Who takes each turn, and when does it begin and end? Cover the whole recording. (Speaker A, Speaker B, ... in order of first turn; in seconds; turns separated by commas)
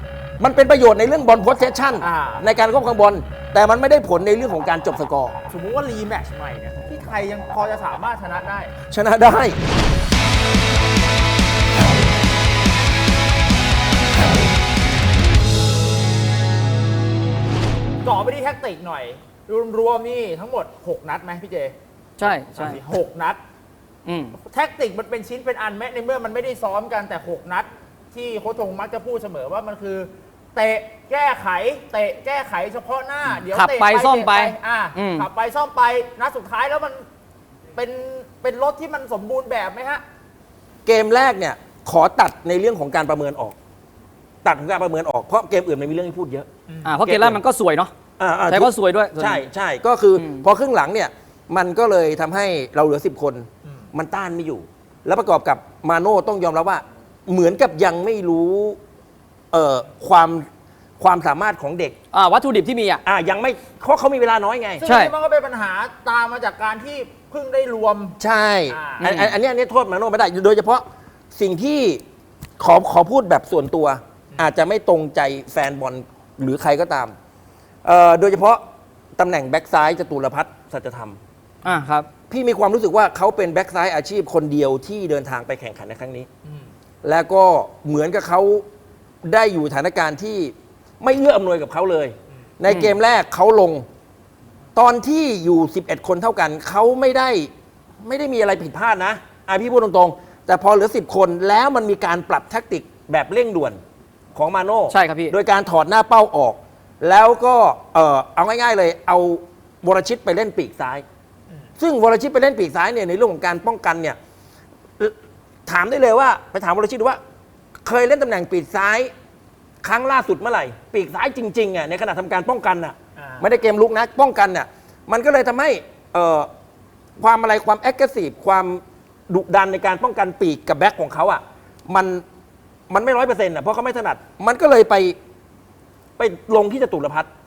Speaker A: 0.4-5.4, Speaker B: 2.0-2.4, Speaker B: 5.5-8.7, Speaker A: 8.9-9.6, Speaker B: 18.0-21.8, Speaker C: 22.2-22.8, Speaker B: 22.5-23.4, Speaker C: 24.1-24.4, Speaker B: 24.4-37.0, Speaker C: 33.5-35.3, Speaker B: 37.7-40.0, Speaker A: 40.9-43.5, Speaker A: 44.4-46.5, Speaker B: 46.7-47.0, Speaker C: 46.8-47.9, Speaker A: 47.0-47.4, Speaker A: 48.2-58.8, Speaker C: 48.5-49.5, Speaker C: 50.2-50.5, Speaker A: 59.5-60.5, Speaker A: 61.0-62.0, Speaker C: 62.1-63.0, Speaker A: 63.0-64.8, Speaker B: 64.8-68.2, Speaker C: 64.8-65.1, Speaker A: 68.2-72.0, Speaker B: 68.7-69.1, Speaker C: 69.0-69.3, Speaker A: 72.6-77.1, Speaker A: 77.8-78.6, Speaker A: 79.2-81.2, Speaker C: 81.7-82.1, Speaker A: 82.3-86.3, Speaker A: 87.0-88.7, Speaker A: 89.2-93.8, Speaker C: 92.7-92.9, Speaker A: 94.8-97.5, Speaker A: 98.0-103.8, Speaker A: 104.3-111.0, Speaker C: 104.9-105.3, Speaker A: 111.8-114.2, Speaker A: 115.7-117.2, Speaker A: 117.8-119.1, Speaker A: 119.8-126.5, Speaker A: 127.2-132.2, Speaker A: 132.9-135.2, Speaker A: 136.2-137.3